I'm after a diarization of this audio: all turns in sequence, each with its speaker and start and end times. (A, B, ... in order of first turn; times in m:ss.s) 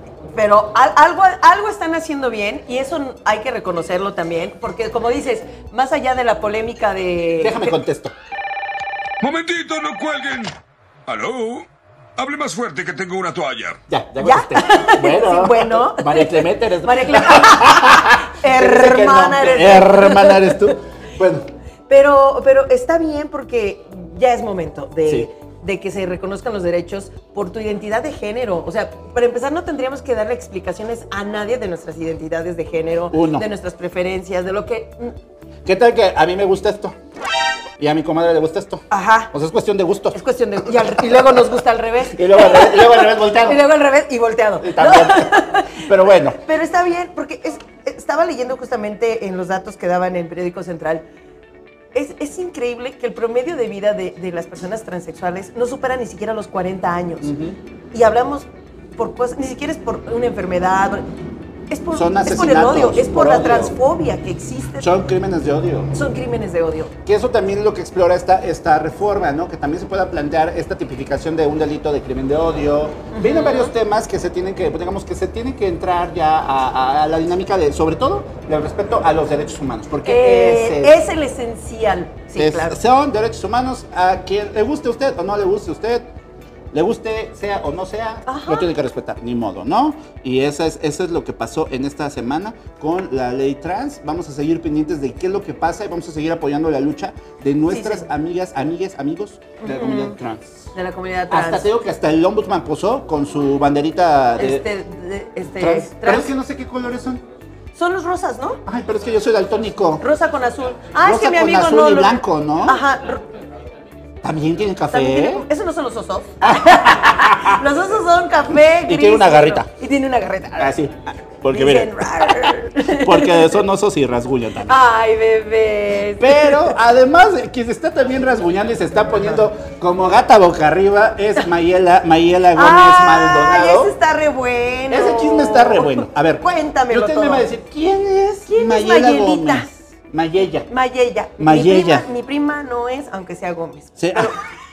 0:00.3-0:07.8 A
0:07.4-0:08.1 B
0:09.2-0:10.5 C
0:11.1-0:13.8 C
0:13.9-0:21.5 B
0:14.2-0:20.6 A
0:21.9-0:35.1 A
0:33.1-0:33.5 B
0:35.6-0:37.0 B
0:37.8-0:41.4 B
0:38.9-0:39.3 A
0:40.1-0:51.0 A
0:42.0-0:43.6 B
0:44.6-0:46.4 B
0:51.9-0:57.3 A
0:57.2-0:57.6 B
0:57.9-1:01.0 A
1:01.7-1:04.9 A
1:01.9-1:03.7 B
1:04.8-1:05.9 B
1:05.9-1:06.9 A
1:07.0-1:21.0 B
1:13.1-1:13.7 A
1:20.0-1:22.8 A
1:22.4-1:26.0 B
1:26.7-1:40.7 B
1:28.2-1:28.7 A
1:37.7-1:38.1 A
1:39.6-1:40.2 A
1:40.7-1:41.7 A
1:41.3-1:44.7 B
1:44.4-1:46.3 A
1:45.6-1:47.2 B
1:47.7-1:48.6 A
1:48.6-1:50.0 B
1:50.0-1:53.2 A
1:51.0-1:52.8 B
1:54.2-1:55.4 B
1:54.9-2:00.7 A
1:56.4-1:57.6 B
1:58.7-1:59.7 B
2:00.6-2:04.8 B
2:01.5-2:03.6 A
2:04.7-2:06.8 A
2:06.2-2:13.9 B
2:12.5-2:17.5 A
2:14.9-2:20.7 B
2:18.5-2:19.8 A
2:20.7-2:24.4 A
2:21.4-2:22.0 B
2:24.0-2:24.3 B